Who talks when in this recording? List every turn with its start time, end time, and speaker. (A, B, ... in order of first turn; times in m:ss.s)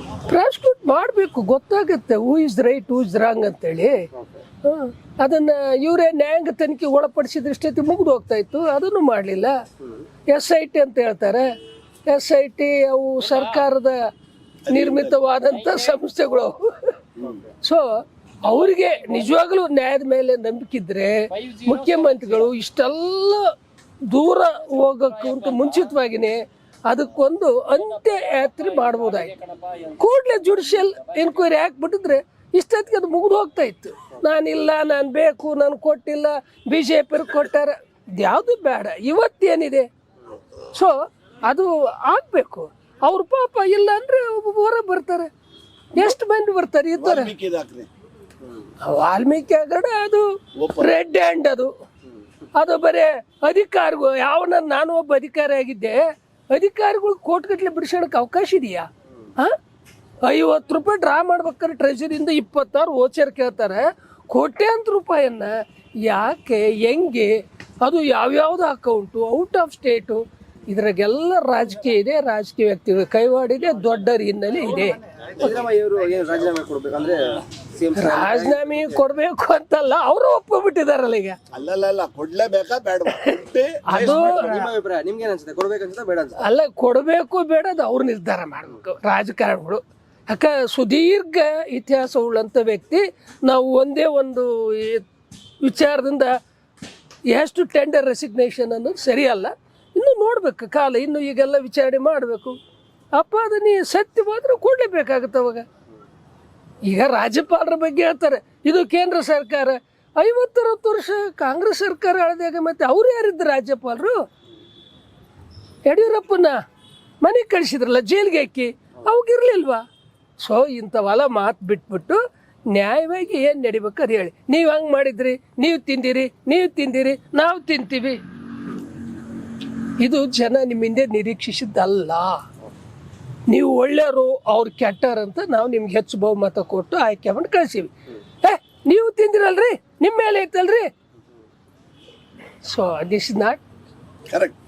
0:00.3-0:04.0 A
0:04.6-0:09.6 A
0:10.3-0:11.5 A
0:12.1-0:14.0 A
0:14.6-0:15.2 B
0:14.7-0:16.9 A
0:17.2-0:17.4 C
0:17.6-0:23.5 A
0:24.1-0:39.9 A
0:40.7-0:45.3 A
0:45.9-0:47.3 A
0:47.0-0:47.9 B
0:48.8-0:50.2 A
0:50.6-0:50.9 B
0:50.8-0:51.7 A
0:52.6-0:59.5 A
1:00.2-1:05.5 A
1:06.0-1:15.5 A
1:15.3-1:19.0 C
1:17.9-1:21.4 A
1:21.5-1:24.7 B
1:23.9-1:24.6 A
1:24.6-1:26.4 C
1:26.4-1:35.0 A
1:35.6-1:36.3 A
1:37.3-1:42.6 A
1:43.1-1:45.6 A
1:46.9-1:54.2 A
1:55.8-1:56.6 A
1:57.2-1:59.8 A
2:00.4-2:02.2 A
2:02.7-2:08.2 A
2:10.0-2:12.4 A
2:13.5-2:17.9 A
2:18.4-2:20.9 A
2:22.6-2:23.6 A